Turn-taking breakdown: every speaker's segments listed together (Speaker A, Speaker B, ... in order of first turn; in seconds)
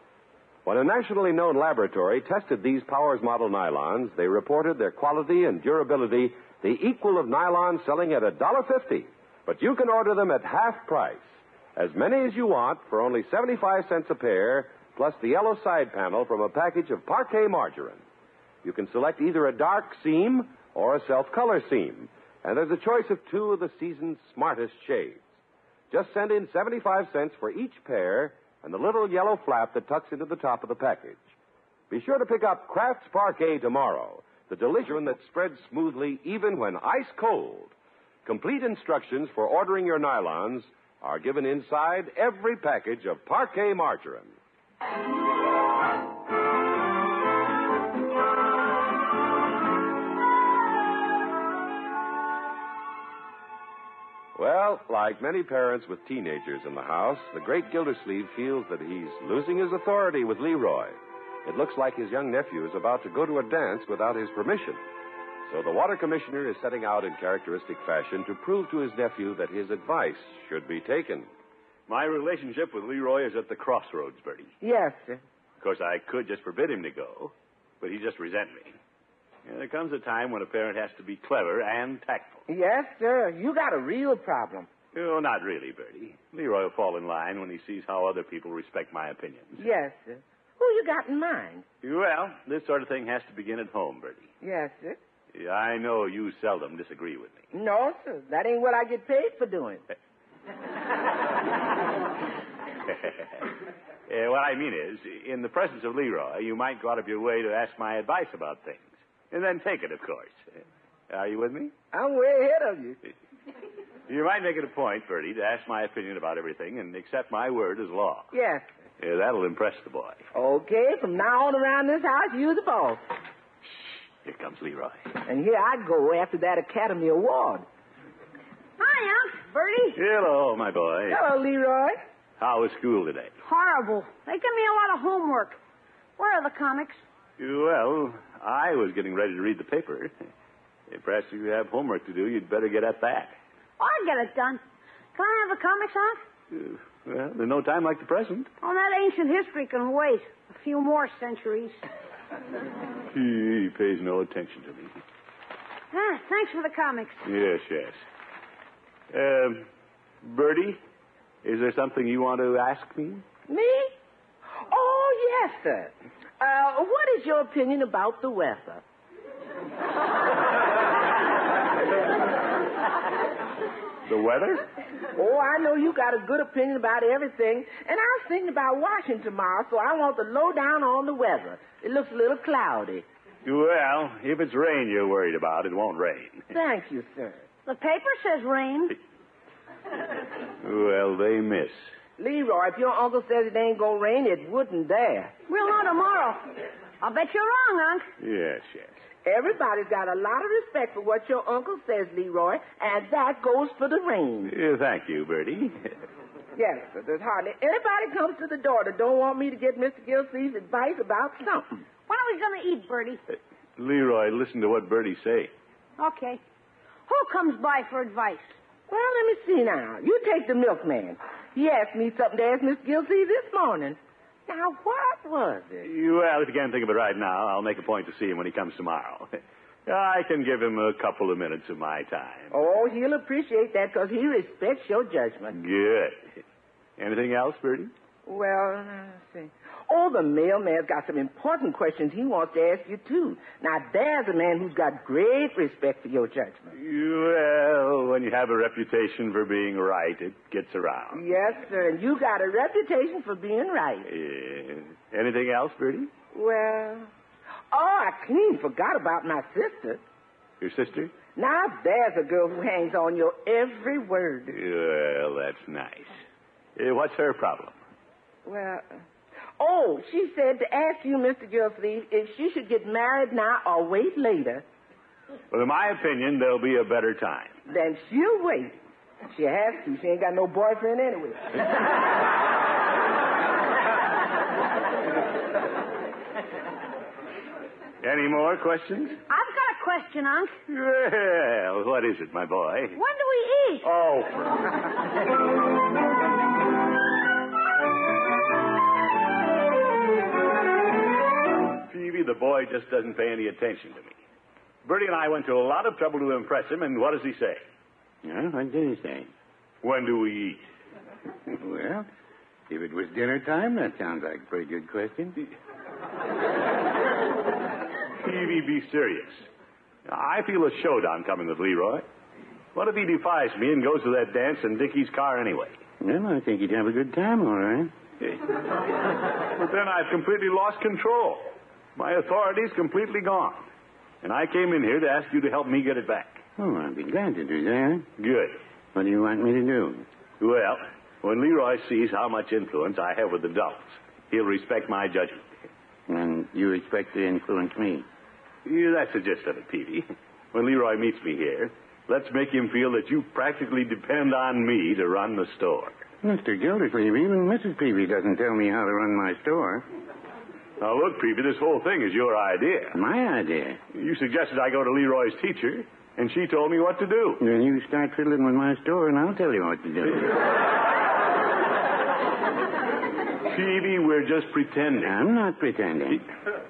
Speaker A: 0.7-18.0, 18.6-25.3, 25.9-31.3, 31.9-37.7, 38.2-44.4, 54.4-64.8, 65.5-71.3
Speaker B: 71.9-74.5, 75.6-78.8, 79.5-82.4, 84.9-89.6, 91.8-94.3, 95.3-97.4, 104.1-110.5, 111.1-111.7, 114.1-118.3, 119.0-120.2, 123.7-125.1, 130.0-131.2, 132.4-133.3, 137.4-140.1, 140.9-143.4, 146.5-148.5, 153.1-154.9, 157.2-158.0, 159.1-159.7, 160.2-160.8, 161.4-163.2, 174.1-174.6, 183.4-186.5, 190.6-191.8, 198.2-198.9, 204.5-205.9, 213.8-215.5, 225.8-232.5, 235.5-236.2, 237.0-237.9, 246.8-251.2, 254.1-256.1, 260.6-261.1, 264.5-266.2, 266.8-267.8, 275.5-277.6, 288.0-289.2, 290.7-293.0, 293.8-294.7, 301.9-304.2, 304.9-307.6, 309.8-310.7, 318.2-319.5, 320.1-322.1, 322.8-325.8, 328.2-328.8, 329.3-333.7, 334.2-336.4, 338.2-338.6, 340.4-345.5, 348.6-356.1, 360.8-363.0, 363.9-367.4, 373.4-375.2
Speaker C: 74.6-75.2, 82.5-84.7, 89.6-91.6, 94.4-95.0, 97.5-99.8, 111.9-113.0, 118.3-118.7, 120.3-123.0, 125.2-127.7, 131.1-132.0, 163.5-163.9, 164.7-168.8, 175.2-183.1, 186.5-187.4, 192.2-195.3, 199.2-204.5, 206.6-211.8, 218.9-225.9, 232.5-235.6, 238.3-246.7, 251.1-254.1, 256.3-257.1, 257.7-260.0, 261.4-264.6, 268.4-269.0, 269.6-274.6, 277.7-278.8, 279.3-281.6
Speaker D: 128.8-130.0, 133.4-135.6, 136.2-137.0, 143.8-144.6, 145.2-146.2, 148.6-151.8, 155.9-157.3, 187.7-189.0, 195.5-198.1, 212.1-213.2, 216.0-216.4, 217.1-218.6, 289.3-290.5, 292.9-293.9
Speaker E: 308.2-309.3, 311.5-312.1, 312.7-315.4, 326.0-327.9, 336.6-338.1, 338.9-340.1, 346.1-348.1, 356.2-359.9, 362.9-363.8, 367.4-370.5, 375.0-376.3